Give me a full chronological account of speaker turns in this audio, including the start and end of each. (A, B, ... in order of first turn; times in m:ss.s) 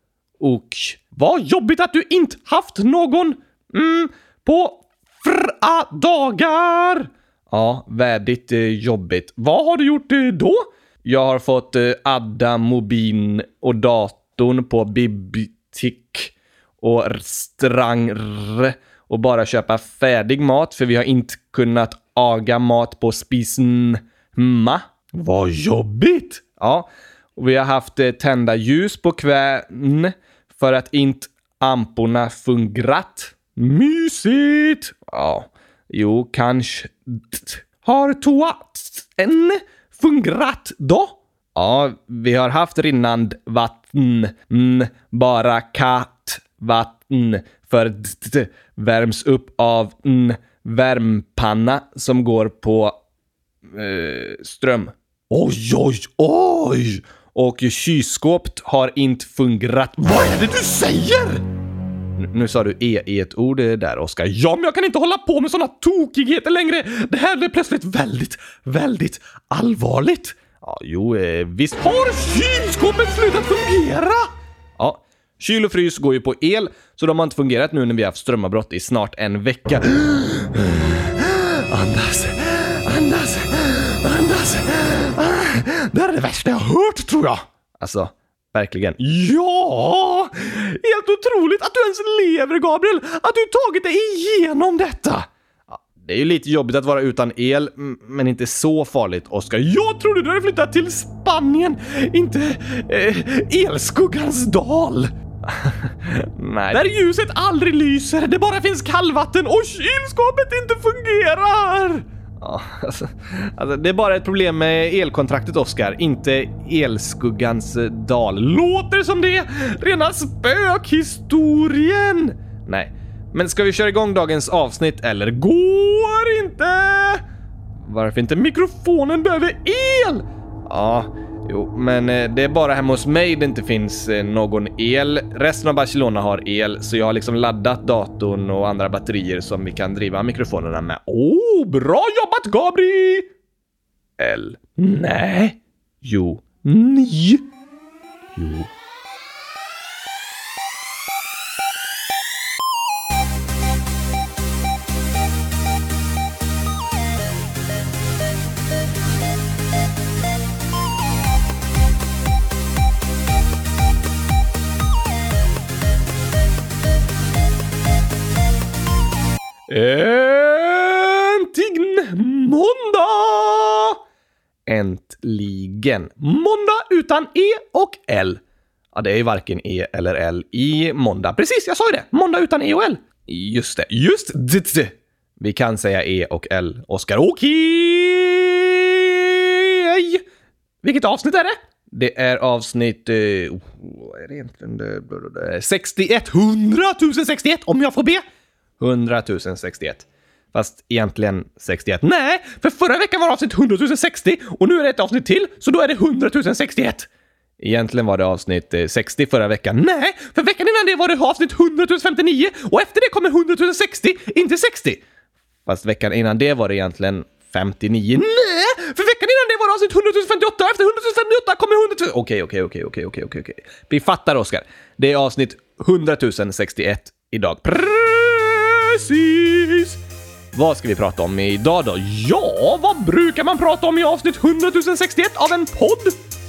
0:00.4-0:52.9 A
0:53.7-1:01.4 A
1:02.2-2:07.2 A
2:07.8-2:23.3 A
2:24.2-2:27.4 A
2:28.4-2:28.7 A
2:49.7-2:54.0 A
2:54.7-2:58.4 A
2:58.9-3:10.2 A
3:10.8-3:18.2 A
3:18.8-3:27.1 A
3:27.6-3:35.0 A
3:35.7-3:50.0 A
3:50.5-3:56.2 A